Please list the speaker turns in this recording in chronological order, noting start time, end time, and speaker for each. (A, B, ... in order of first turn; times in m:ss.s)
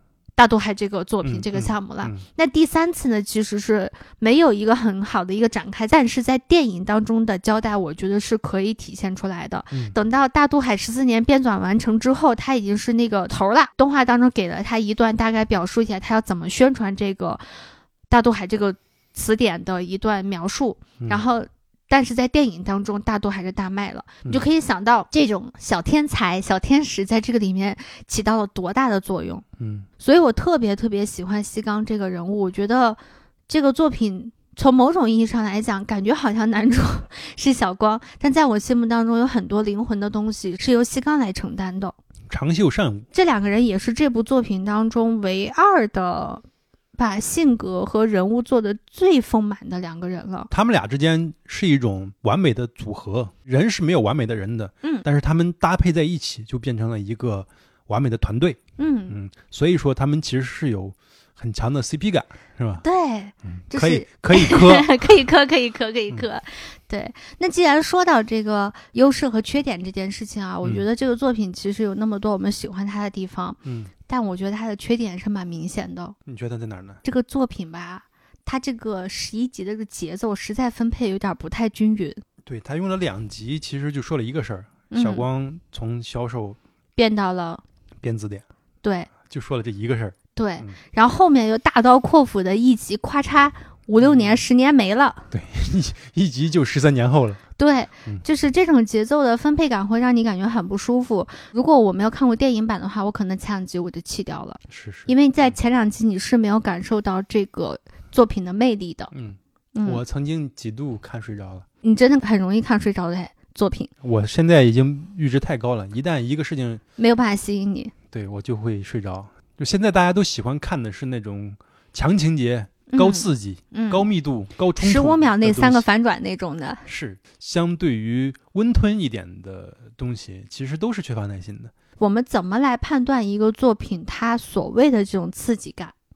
0:00.4-0:29.4 A
0:01.2-0:02.2 B
0:29.6-0:29.9 B
0:30.0-0:42.0 A
0:42.3-0:43.1 B
0:43.1-0:46.4 A
0:47.0-0:50.5 A
0:50.5-1:02.8 B
0:58.8-0:59.2 A
1:02.8-1:16.2 A
1:03.5-1:04.9 B
1:13.6-1:13.9 B
1:16.2-1:17.0 B
1:17.0-1:22.2 A
1:22.4-1:26.6 B
1:24.9-1:25.2 A
1:27.0-1:27.6 A
1:28.0-1:28.4 B
1:28.8-1:29.1 A
1:29.2-1:30.8 B
1:30.4-1:35.3 A
1:34.0-1:34.4 B
1:35.3-1:37.4 B
1:37.6-1:49.1 A
1:44.7-1:45.1 B
1:49.1-1:51.6 B
1:49.7-1:50.0 A
1:51.8-1:53.9 A
1:54.0-1:56.8 B
1:57.0-1:57.9 A
1:58.1-2:05.8 B
2:02.9-2:04.0 A
2:04.8-2:06.8 A
2:06.8-2:11.7 B
2:12.0-2:15.9 A